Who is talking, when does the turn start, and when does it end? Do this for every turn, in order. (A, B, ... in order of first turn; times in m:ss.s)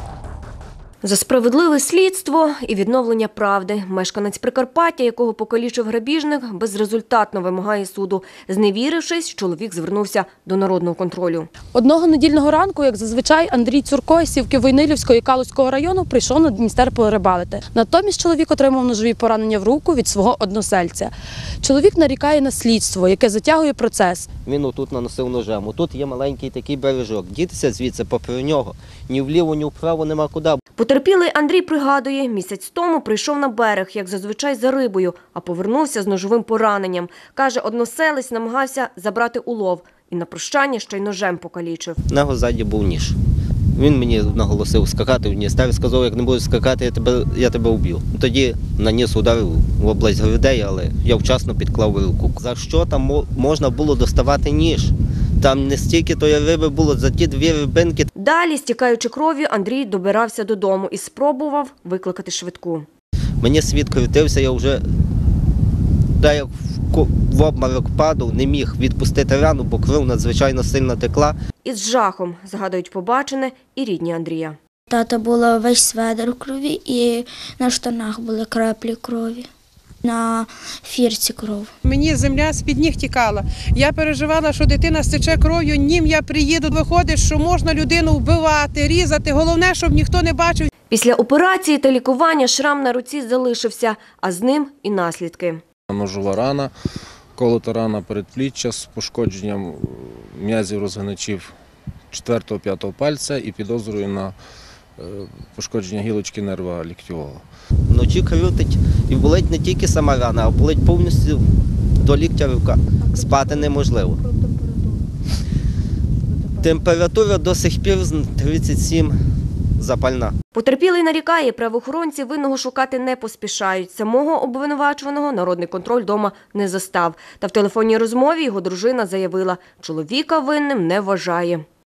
0:01.0-0:11.5 A
0:11.7-0:24.3 B
0:24.4-0:30.6 C
0:30.8-0:42.0 A
0:42.1-0:43.2 C
0:43.7-0:58.1 C
0:58.1-1:02.9 A
1:03.4-1:04.8 C
1:06.2-1:11.4 C
1:11.6-1:14.6 A
1:14.9-1:19.5 D
1:20.0-1:21.7 D
1:21.8-1:30.7 E
1:30.9-1:35.6 A
1:35.9-1:36.7 F
1:37.4-1:41.5 F
1:42.1-1:44.3 F
1:45.0-1:47.4 F
1:47.9-1:51.4 C
1:52.0-1:54.2 C
1:53.1-1:53.7 B
1:54.2-1:55.0 B
1:56.6-1:59.2 C
1:59.8-2:00.3 C
2:00.5-2:11.6 A